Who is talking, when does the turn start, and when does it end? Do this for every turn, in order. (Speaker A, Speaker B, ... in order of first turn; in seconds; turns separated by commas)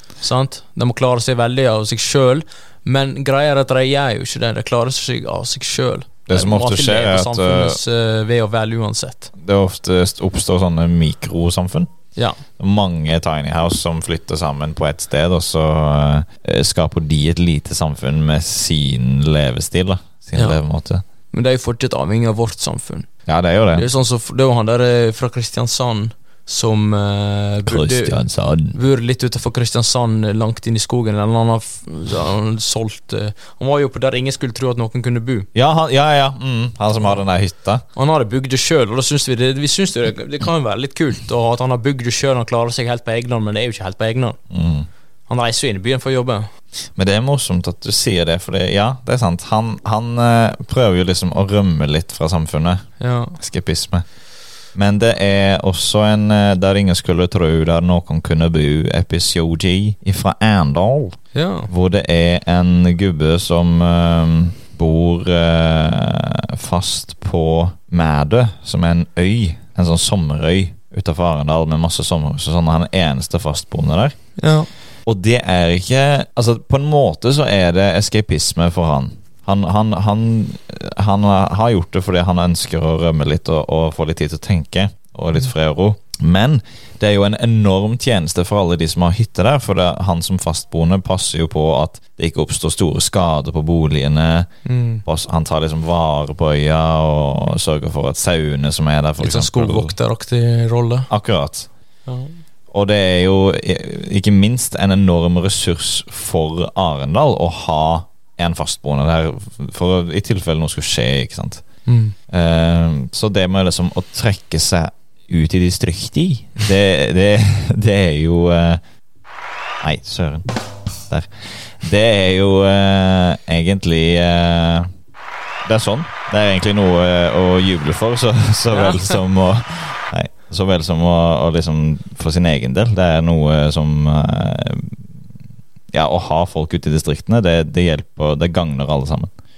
Speaker A: 0.2-9.3, Speaker B: 6.3-7.8, Speaker B: 9.4-11.9, Speaker A: 12.2-12.4, Speaker B: 12.6-21.0, Speaker A: 21.3-23.1, Speaker B: 23.3-23.8, Speaker A: 23.7-35.5, Speaker B: 27.6-28.8, Speaker B: 35.5-37.8, Speaker A: 37.9-44.4, Speaker B: 44.5-44.9, Speaker A: 45.3-46.5, Speaker B: 47.0-54.0, Speaker A: 53.0-53.4, Speaker B: 54.7-61.2, Speaker A: 61.3-61.7, Speaker B: 61.7-74.2, Speaker A: 74.4-74.7, Speaker B: 75.0-94.5, Speaker A: 94.6-95.0, Speaker B: 95.0-99.9, Speaker A: 99.2-101.1, Speaker B: 101.1-101.7, Speaker A: 102.0-102.4, Speaker B: 102.7-111.6, Speaker A: 111.8-112.2, Speaker B: 112.3-118.8, Speaker B: 119.8-120.5, Speaker B: 121.1-124.9, Speaker B: 125.7-135.1, Speaker A: 128.7-129.2, Speaker B: 135.9-139.3